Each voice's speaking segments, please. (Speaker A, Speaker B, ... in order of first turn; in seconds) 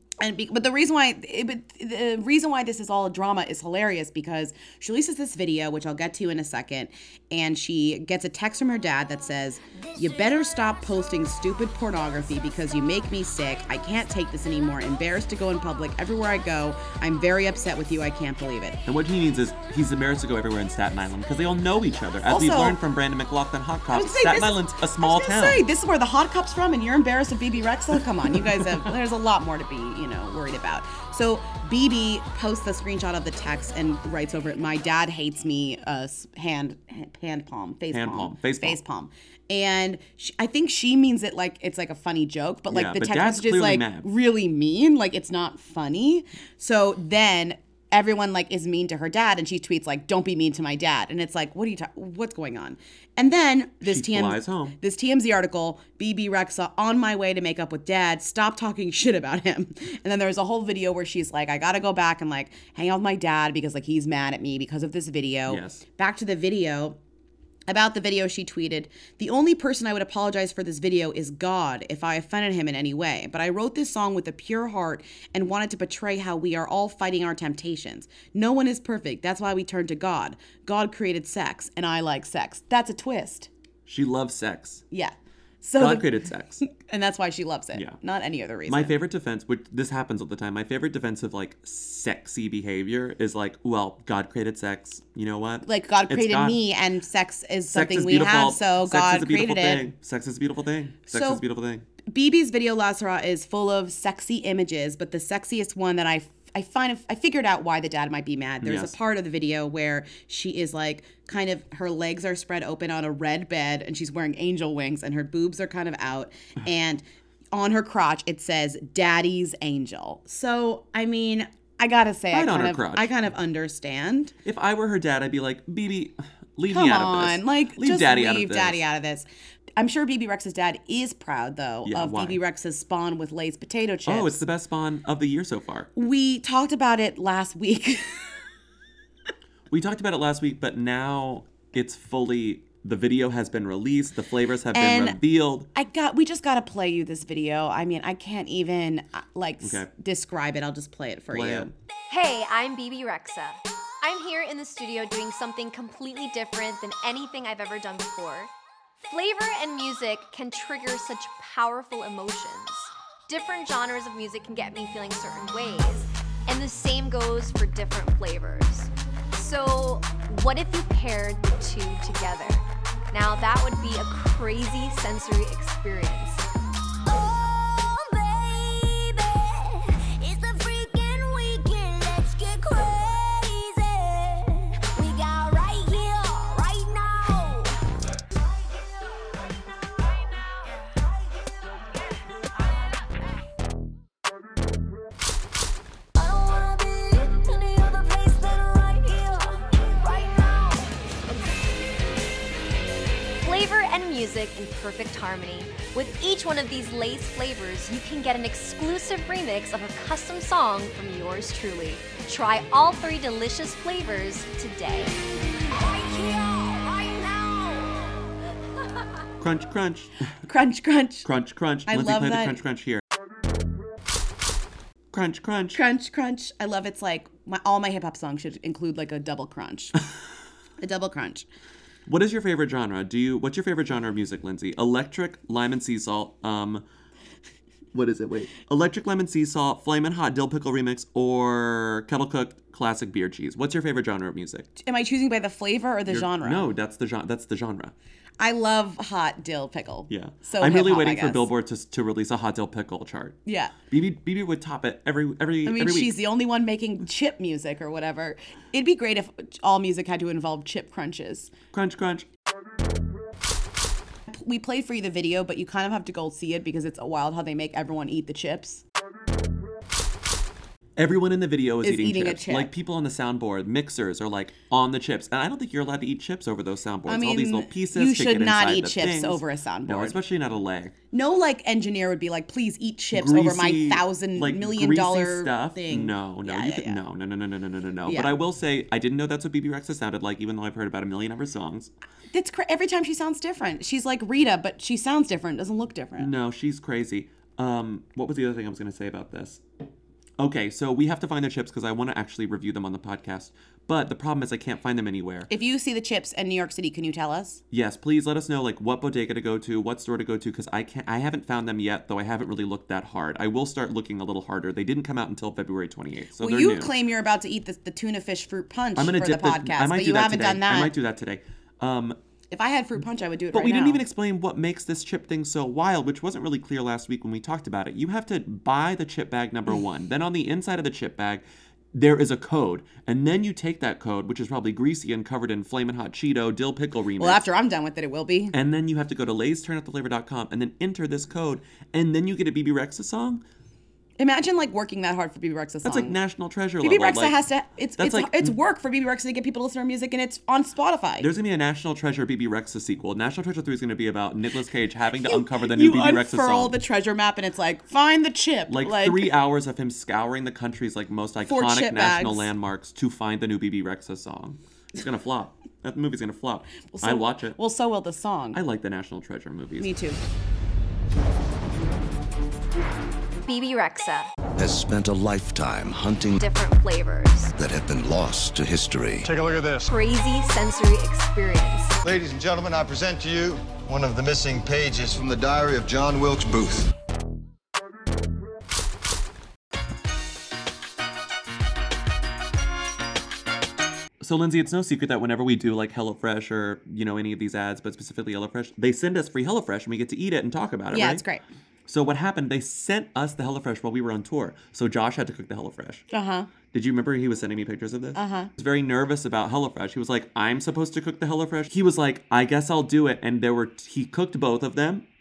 Speaker A: 0.2-18.8, 22.3-22.8, 23.9-67.0, 67.7-83.5, 84.9-86.1, 86.6-88.9, 95.7-99.8, 101.1-101.4, 102.1-124.3, 126.7-129.3, 129.8-134.4, 136.0-138.3, 144.7-145.2, 145.7-151.7, 220.5-221.3, 221.9-222.6, 225.7-230.0, 230.8-231.5, 244.8-246.7, 248.4-251.5, 253.5-253.7, 255.7-261.5, 264.3-268.8, 271.8-272.7, 277.1-280.2, 281.1-287.0, 288.1-288.3, 292.3-296.3, 305.5-307.6, 316.4-320.9, 322.5-324.0, 337.2-338.5, 344.2-346.2, 346.8-351.3, 355.2-359.3, 361.5-362.5, 366.9-368.6, 369.8-370.2, 400.9-401.4, 406.1-406.5, 408.1-408.5
Speaker B: 18.9-25.6, 28.4-28.7, 37.9-38.8, 42.7-44.1, 53.8-54.8, 65.5-65.8, 83.9-84.8, 85.8-86.6, 88.7-96.6, 97.7-101.8, 108.6-108.9, 122.3-123.1, 124.4-128.8, 131.8-132.4, 134.1-135.9, 139.7-145.7, 149.6-149.9, 151.3-151.7, 219.4-220.2, 221.2-223.0, 225.1-225.8, 232.1-236.8, 237.9-244.7, 246.1-247.9, 250.1-253.4, 253.9-256.2, 261.7-262.3, 271.0-280.9, 283.1-291.9, 296.2-299.6, 300.4-305.5, 307.7-316.9, 319.0-322.2, 323.5-331.4, 331.9-337.5, 338.5-343.4, 345.8-347.4, 348.0-348.6, 351.2-356.8, 358.7-367.6, 368.5-369.9, 394.2-401.2, 401.9-406.1, 406.7-415.1
Speaker C: 152.1-158.5, 159.0-176.5, 203.4-215.2, 373.4-374.3, 376.4-377.5, 379.9-382.0
Speaker D: 177.1-187.7, 196.2-200.9, 215.9-216.8
Speaker E: 374.6-376.4, 377.6-379.4
Speaker F: 379.3-379.9, 382.0-386.9